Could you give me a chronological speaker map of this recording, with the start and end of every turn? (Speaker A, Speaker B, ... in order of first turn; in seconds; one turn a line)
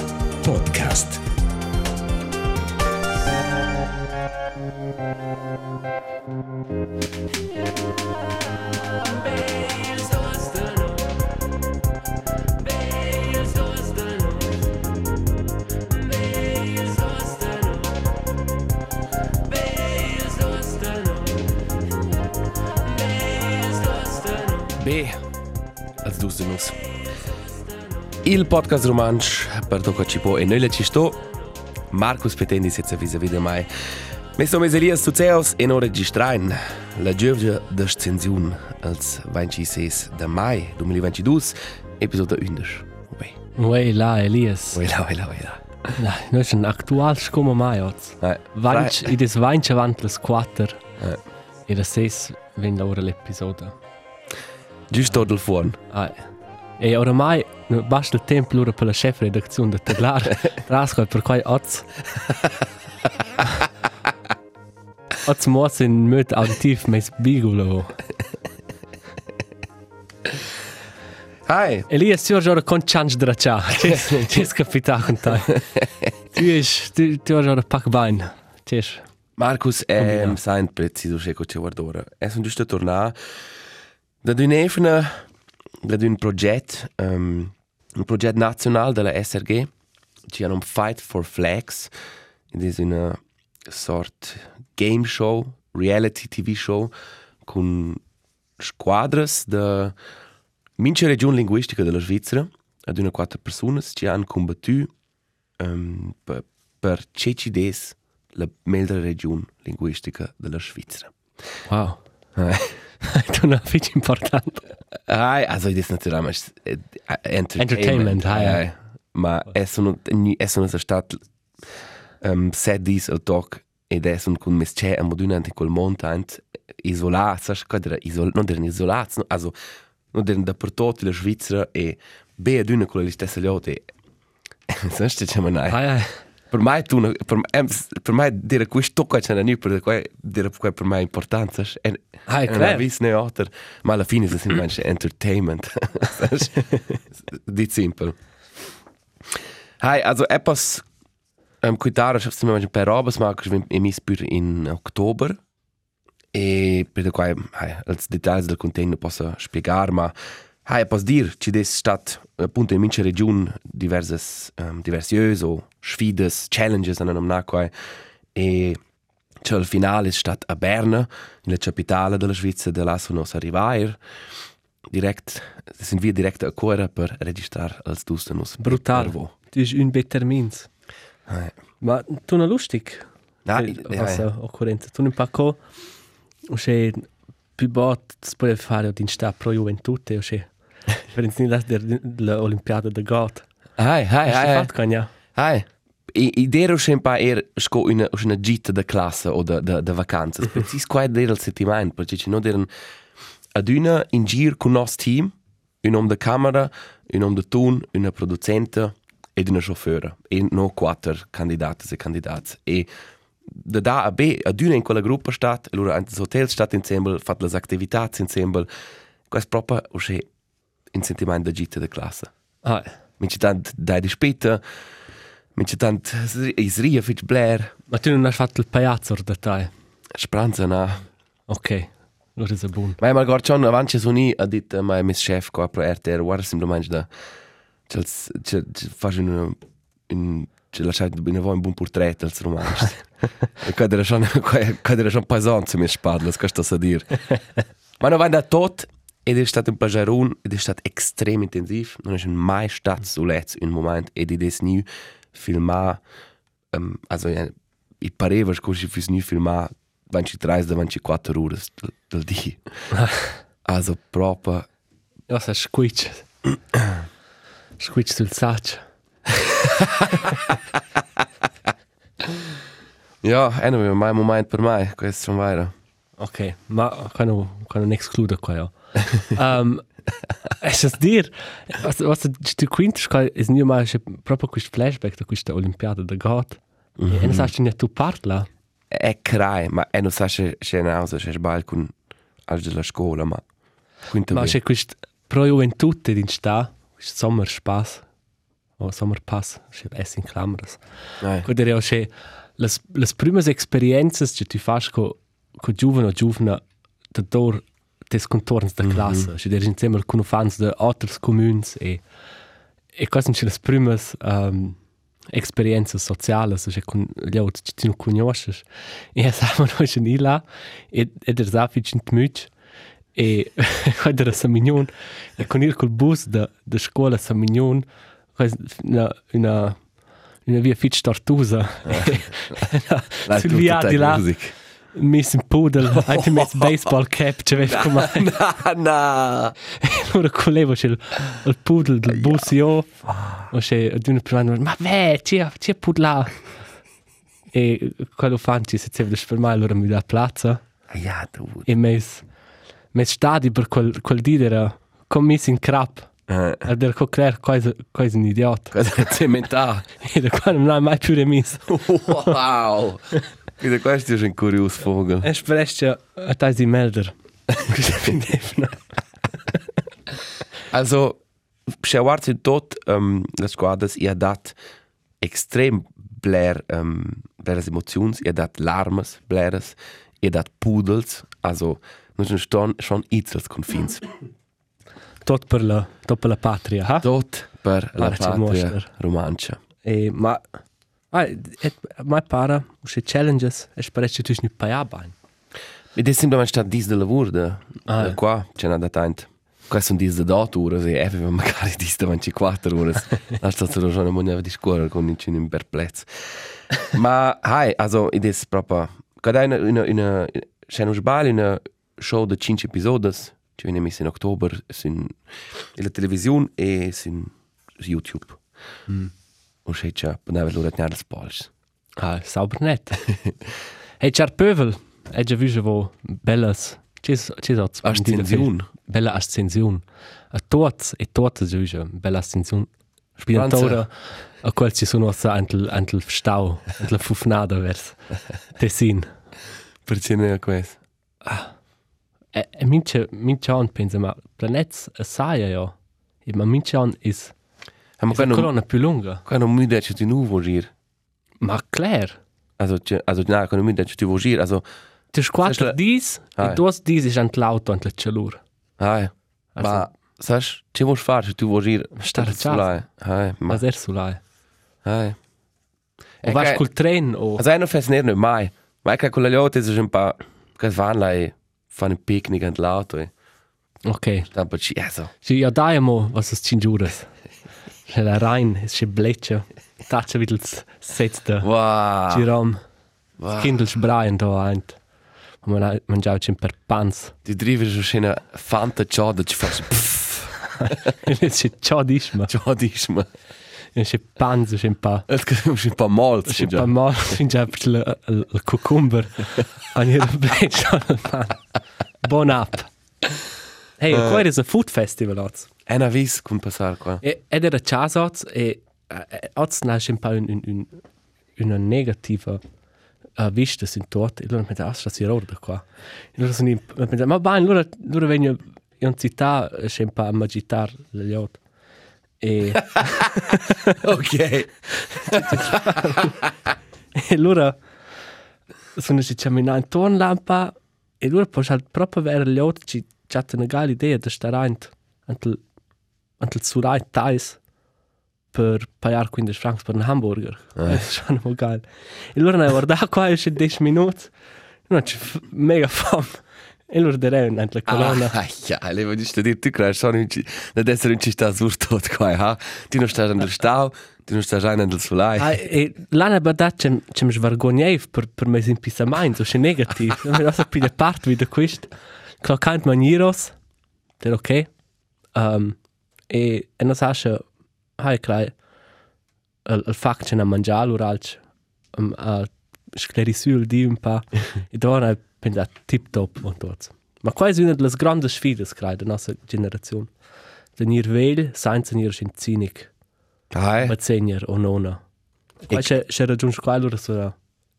Speaker A: 0.4-1.2
Speaker B: 9.4-11.0
Speaker B: 13.0-14.4
Speaker B: 16.2-17.9
Speaker B: 19.8-21.2
Speaker B: 23.1-24.7
Speaker A: 24.8-25.2
Speaker A: 26.0-26.8
Speaker A: 28.2-31.2
Speaker A: 31.9-43.4
Speaker B: 43.5-44.8
Speaker A: 44.7-46.0
Speaker B: 46.0-50.8
Speaker A: 48.2-49.1
Speaker B: 51.7-53.7
Speaker A: 54.9-55.8
Speaker B: 55.9-56.3
Speaker B: 56.8-61.9
Speaker B: 65.2-68.0
Speaker A: 71.5-71.9
Speaker B: 71.9-75.6
Speaker A: 73.9-74.4
Speaker A: 75.5-76.1
Speaker B: 76.3-79.0
Speaker A: 79.4-83.4
Speaker B: 80.0-80.3
Speaker A: 84.2-85.3
Speaker A: 85.8-89.7
Speaker A: 90.3-91.9
Speaker A: 92.5-96.9
Speaker A: 97.4-98.0
Speaker A: 98.6-100.0
Speaker A: 100.8-104.9
Speaker A: 105.6-111.1
Speaker B: 111.7-112.0
Speaker A: 112.3-112.8
Speaker B: 113.0-114.7
Speaker A: 115.1-121.2
Speaker B: 117.6-118.6
Speaker A: 122.2-129.5
Speaker A: 130.1-133.9
Speaker A: 134.7-135.8
Speaker B: 135.7-136.2
Speaker A: 136.5-148.2
Speaker B: 142.3-142.8
Speaker A: 149.3-150.8
Speaker A: 151.6-155.4
Speaker A: 156.3-167.7
Speaker A: 168.3-168.8
Speaker A: 169.4-174.0
Speaker A: 174.9-179.3
Speaker B: 178.6-180.7
Speaker A: 181.3-181.5
Speaker B: 181.8-185.6
Speaker A: 183.4-184.2
Speaker B: 186.5-193.4
Speaker A: 193.8-194.7
Speaker B: 194.3-195.1
Speaker A: 195.3-202.7
Speaker A: 203.5-212.9
Speaker A: 213.5-218.7
Speaker A: 219.3-220.3
Speaker A: 220.9-222.3
Speaker B: 222.6-222.9
Speaker A: 223.2-224.6
Speaker A: 225.5-227.7
Speaker B: 227.9-229.7
Speaker A: 230.1-231.1
Speaker B: 231.5-233.0
Speaker A: 233.0-237.1
Speaker A: 237.9-247.2
Speaker A: 248.0-256.0
Speaker A: 256.7-262.7
Speaker B: 262.9-263.4
Speaker A: 263.6-264.7
Speaker B: 265.3-266.3
Speaker B: 267.8-268.8
Speaker A: 269.8-270.2
Speaker A: 273.2-275.7
Speaker B: 276.2-279.9
Speaker B: 280.5-288.5
Speaker A: 287.0-287.5
Speaker A: 288.9-291.9
Speaker A: 292.5-293.4
Speaker A: 294.1-294.6
Speaker B: 294.3-298.0
Speaker B: 298.8-300.8
Speaker A: 301.2-301.5
Speaker B: 301.4-306.6
Speaker B: 307.1-312.0
Speaker A: 308.8-309.3
Speaker B: 312.9-314.8
Speaker B: 315.3-322.5
Speaker B: 323.1-329.9
Speaker B: 330.4-334.3
Speaker A: 331.9-332.5
Speaker A: 333.3-334.5
Speaker B: 334.9-338.3
Speaker A: 335.9-336.9
Speaker A: 337.6-339.6
Speaker B: 339.7-346.4
Speaker A: 343.1-343.5
Speaker B: 347.5-350.6
Speaker A: 350.9-351.7
Speaker B: 351.6-352.2
Speaker B: 352.9-356.1
Speaker A: 356.3-356.6
Speaker B: 356.6-358.8
Speaker A: 358.7-359.9
Speaker B: 360.0-362.2
Speaker A: 361.7-365.3
Speaker B: 365.2-368.8
Speaker A: 370.7-374.6
Speaker A: 375.2-384.0
Speaker B: 385.2-387.1
Speaker A: 387.0-389.6
Speaker B: 388.0-388.9
Speaker B: 389.8-390.4
Speaker B: 391.1-395.1
Speaker A: 395.9-418.4
Speaker B: 397.9-398.2
Speaker A: 419.6-421.5
Speaker B: 422.0-423.1
Speaker B: 424.0-438.0
Speaker A: 427.8-428.7
Speaker A: 433.3-433.8
Speaker B: 438.5-439.1
Speaker A: 439.9-440.8
Speaker B: 441.2-441.5
Speaker B: 442.3-447.3
Speaker A: 448.0-448.5
Speaker B: 448.1-449.2
Speaker A: 449.2-450.7
Speaker B: 451.4-452.2
Speaker A: 452.6-454.6
Speaker B: 455.1-458.4
Speaker A: 455.4-455.8
Speaker A: 456.4-456.6
Speaker A: 458.8-463.6
Speaker B: 459.6-459.9
Speaker B: 461.9-462.8
Speaker B: 463.5-464.2
Speaker A: 464.8-465.2
Speaker A: 466.2-466.6
Speaker B: 466.2-467.4
Speaker A: 467.4-473.1
Speaker B: 473.9-474.3
Speaker A: 474.3-475.1
Speaker B: 475.2-477.1
Speaker B: 477.9-481.5
Speaker A: 481.4-482.3
Speaker B: 482.1-482.6
Speaker A: 483.2-483.5
Speaker B: 483.3-484.8
Speaker B: 485.4-487.1
Speaker A: 487.2-490.9
Speaker B: 490.6-492.3
Speaker A: 492.3-493.1
Speaker B: 493.7-495.1
Speaker A: 495.1-497.1
Speaker B: 496.3-501.4
Speaker B: 502.0-502.7
Speaker B: 503.8-505.5
Speaker A: 503.9-504.2
Speaker A: 505.7-507.0
Speaker B: 507.0-510.8
Speaker B: 511.4-512.4
Speaker B: 513.2-521.4
Speaker B: 522.2-523.8
Speaker A: 522.7-526.2
Speaker B: 524.9-526.2
Speaker B: 526.9-527.6
Speaker B: 528.7-535.4
Speaker B: 536.2-537.4
Speaker B: 538.3-544.1
Speaker A: 540.6-540.8
Speaker B: 544.7-548.1
Speaker A: 547.7-555.4
Speaker B: 555.2-563.4
Speaker B: 564.0-564.5
Speaker B: 565.1-565.6
Speaker B: 566.1-567.2
Speaker B: 567.8-568.3
Speaker B: 569.4-571.2
Speaker B: 571.7-579.9
Speaker B: 580.5-582.7
Speaker A: 583.3-583.7
Speaker B: 583.6-584.8
Speaker B: 585.4-587.1